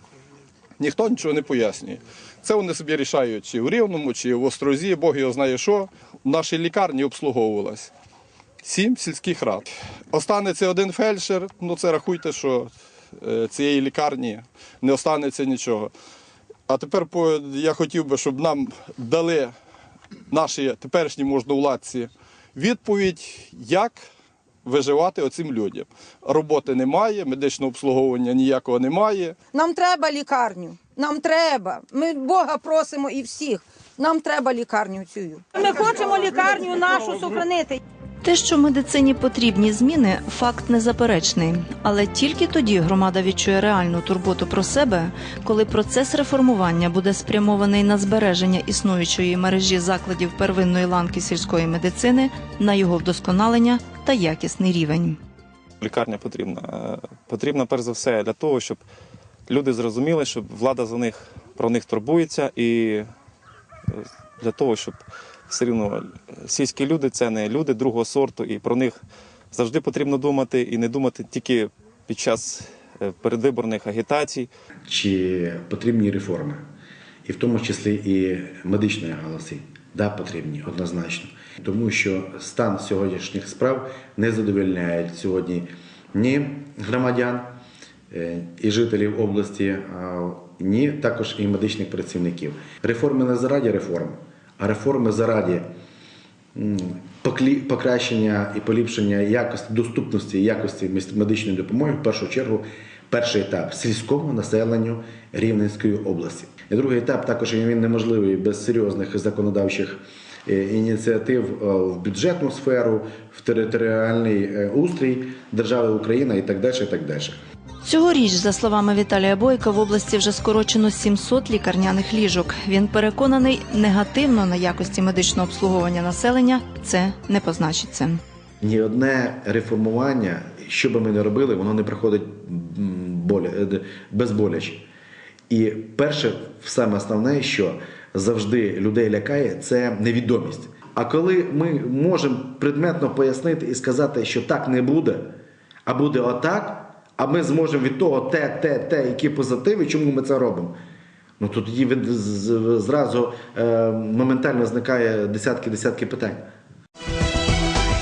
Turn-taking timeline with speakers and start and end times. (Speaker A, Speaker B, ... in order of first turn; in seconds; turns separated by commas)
Speaker A: 0.8-7.9, Speaker A: 8.6-15.9, Speaker A: 16.7-19.5, Speaker A: 20.3-24.0, Speaker A: 24.6-29.4, Speaker B: 29.5-37.8, Speaker C: 38.2-55.2, Speaker D: 55.8-58.8, Speaker D: 59.5-63.1, Speaker D: 63.9-69.0, Speaker D: 69.5-74.5, Speaker E: 74.9-76.7, Speaker E: 77.2-87.6, Speaker E: 88.1-95.7, Speaker E: 96.5-117.4, Speaker C: 117.8-128.2, Speaker E: 128.6-134.8, Speaker E: 135.5-150.8, Speaker E: 151.4-156.5